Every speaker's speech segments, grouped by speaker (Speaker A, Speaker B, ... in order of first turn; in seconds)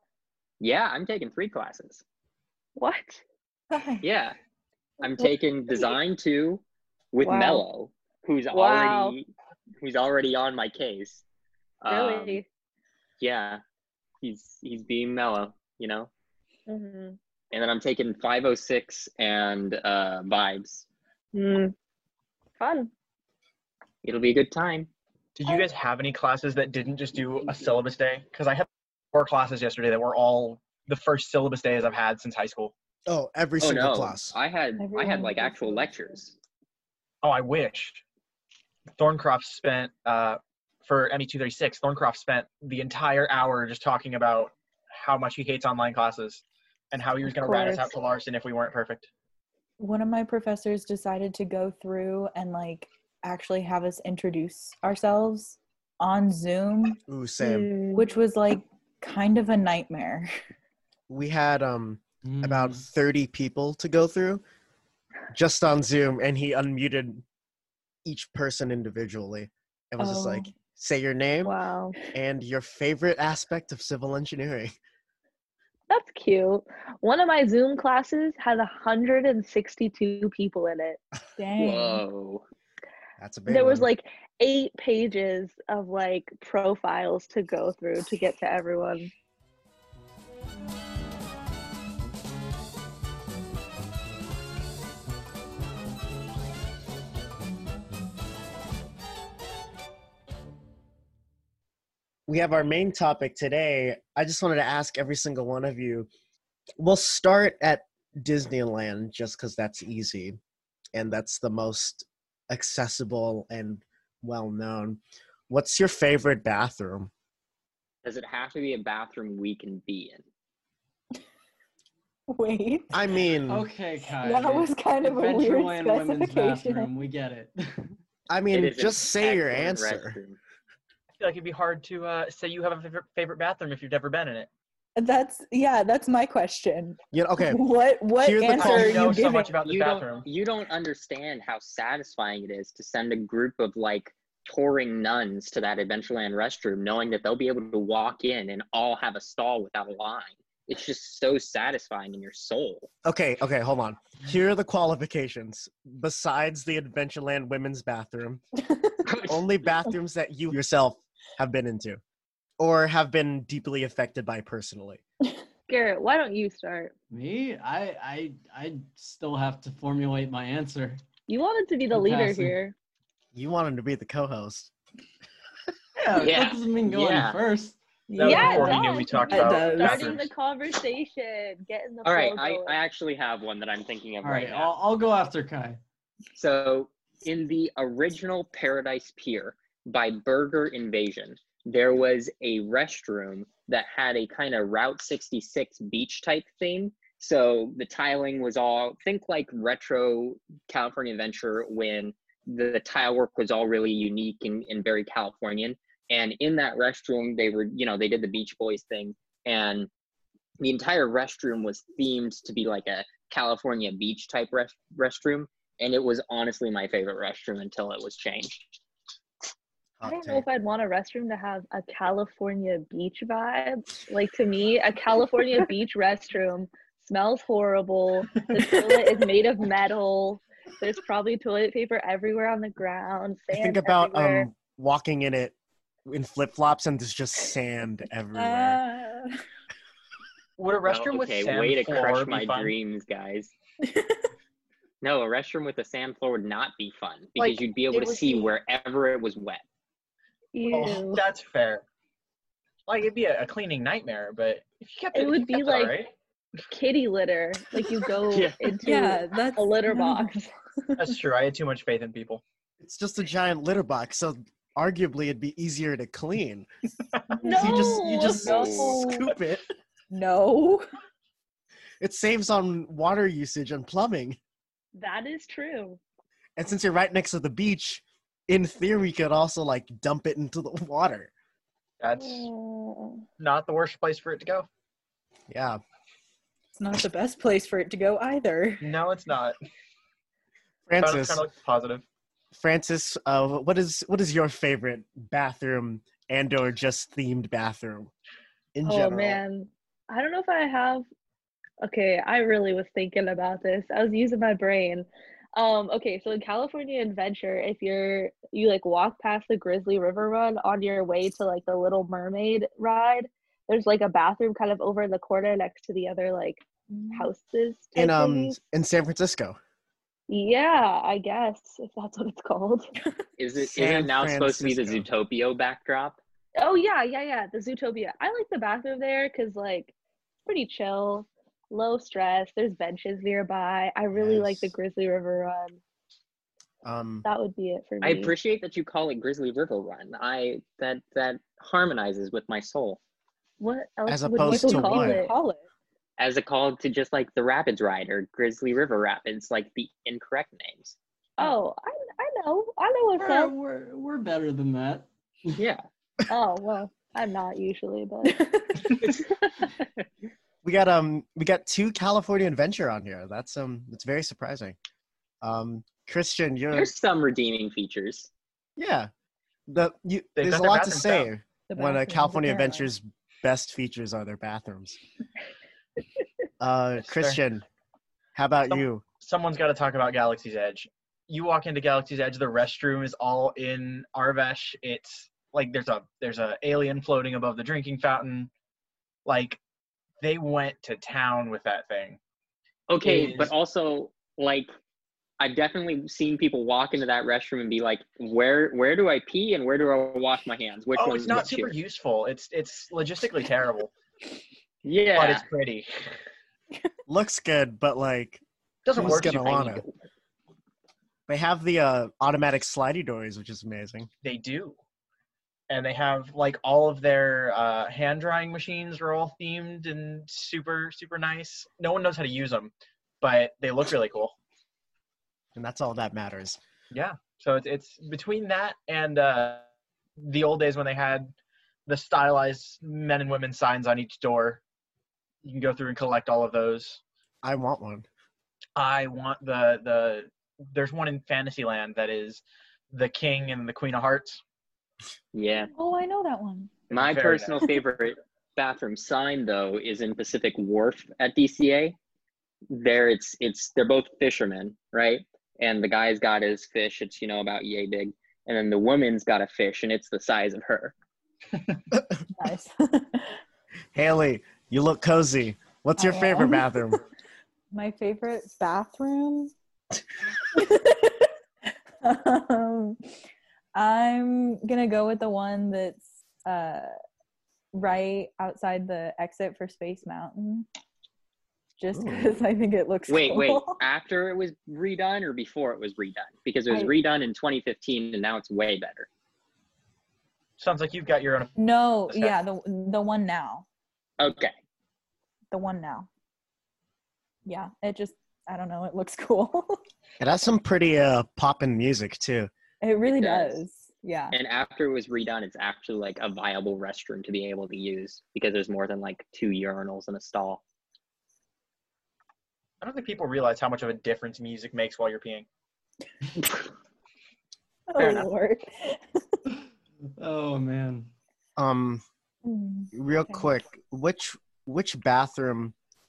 Speaker A: 0.6-2.0, 4.0-4.3, 5.0-9.3, 9.8-11.2, 11.8-12.4, 13.2-13.6, 14.2-16.1, 17.5-20.9, 24.0-24.9, 33.6-36.3, 81.6-82.4, 118.0-120.2, 128.5-130.4, 139.6-152.9, 159.0-159.7, 176.2-177.4, 182.0-184.7, 186.3-209.9, 210.6-218.8, 240.8-243.5, 245.0-249.6, 258.3-258.6, 268.4-269.0, 323.4-326.2, 338.0-343.0, 346.2-350.9, 355.6-355.8, 366.7-368.3, 392.9-394.7, 395.4-401.8, 404.8-405.4, 445.3-445.7, 446.9-451.9, 452.7-460.9, 483.1-489.1, 494.2-494.5, 503.2-503.6, 504.3-510.6
Speaker B: 2.8-3.2, 5.2-6.0, 7.2-7.6, 8.5-9.2, 11.9-12.4, 16.7-17.2, 21.3-21.7, 22.6-22.9, 47.2-48.0, 57.4-58.0, 71.4-72.0, 75.9-81.0, 83.5-89.1, 165.7-166.9, 171.3-172.7, 178.1-182.8, 220.0-234.5, 250.5-251.2, 255.1-256.0, 256.7-260.5, 267.4-269.2, 274.9-276.0, 282.2-283.2, 298.8-301.0, 301.8-318.6, 320.3-322.9, 326.6-329.9, 330.4-335.8, 337.2-338.3, 343.6-345.3, 351.4-353.5, 356.3-358.4, 359.0-359.6
Speaker C: 3.7-4.0, 34.8-36.1, 49.8-57.0, 57.9-60.3, 70.0-70.5, 81.4-82.0, 122.3-122.9, 124.2-126.9, 134.9-139.5, 158.7-158.9, 178.2-180.1, 228.5-229.3, 238.3-239.3, 243.8-244.2, 258.8-260.3, 267.3-268.4, 270.1-270.9, 286.8-288.9, 316.9-317.3, 344.4-345.6, 358.2-358.9, 371.7-372.9, 445.7-446.7, 462.4-463.4, 466.0-466.7, 467.7-469.5, 470.5-471.3, 472.0-473.0, 473.7-476.9, 477.7-480.7, 481.8-483.8, 491.6-493.6, 495.5-496.1, 497.4-499.8, 502.8-504.4, 517.9-519.2, 522.4-523.5
Speaker D: 25.4-32.7, 37.2-38.0, 39.0-49.1, 131.2-134.5, 138.5-140.3, 178.2-180.3, 240.6-242.7, 247.4-248.5, 250.7-251.8, 252.9-256.1, 261.0-262.4, 282.0-282.5, 283.4-284.7, 288.8-289.6, 291.0-292.0, 370.4-371.3, 377.0-377.4, 378.7-388.5, 389.2-389.6, 390.2-392.2, 393.0-393.5, 400.9-403.9, 405.1-406.2, 408.8-409.8, 414.2-414.8, 415.7-424.4, 426.9-431.3, 431.9-434.6, 435.4-437.0, 438.8-444.4, 446.9-447.5, 490.6-491.6, 492.1-492.4, 512.8-515.5
Speaker E: 33.0-34.3, 57.1-57.7, 61.1-64.4, 65.3-67.2, 68.0-71.5, 72.1-74.7, 83.2-83.9, 102.3-106.1, 106.8-110.4, 110.9-117.1, 122.9-123.7, 128.3-130.2, 137.1-137.6, 138.1-139.2, 153.0-158.4, 159.3-162.0, 162.6-165.0, 173.3-174.7, 220.0-220.4, 233.5-235.5, 236.1-238.8, 262.8-266.7, 267.5-269.6, 272.0-274.4, 276.6-281.3, 285.5-285.8, 290.9-291.4, 292.5-298.1, 298.7-299.4, 317.9-319.6, 323.7-325.1, 334.1-334.7, 336.8-337.2, 344.1-345.2, 360.6-364.8, 365.4-366.9, 368.8-369.1, 369.7-375.0, 376.6-377.6, 378.3-379.0, 407.1-408.4, 408.9-409.8, 411.3-414.1, 425.5-426.6, 437.4-438.1, 463.9-467.0, 481.9-482.3, 500.2-502.5, 521.6-522.0, 522.9-525.7
Speaker F: 62.2-62.9, 123.5-128.0, 167.1-171.0, 171.9-172.6, 176.0-177.8, 184.2-185.8, 353.2-355.6, 520.2-521.1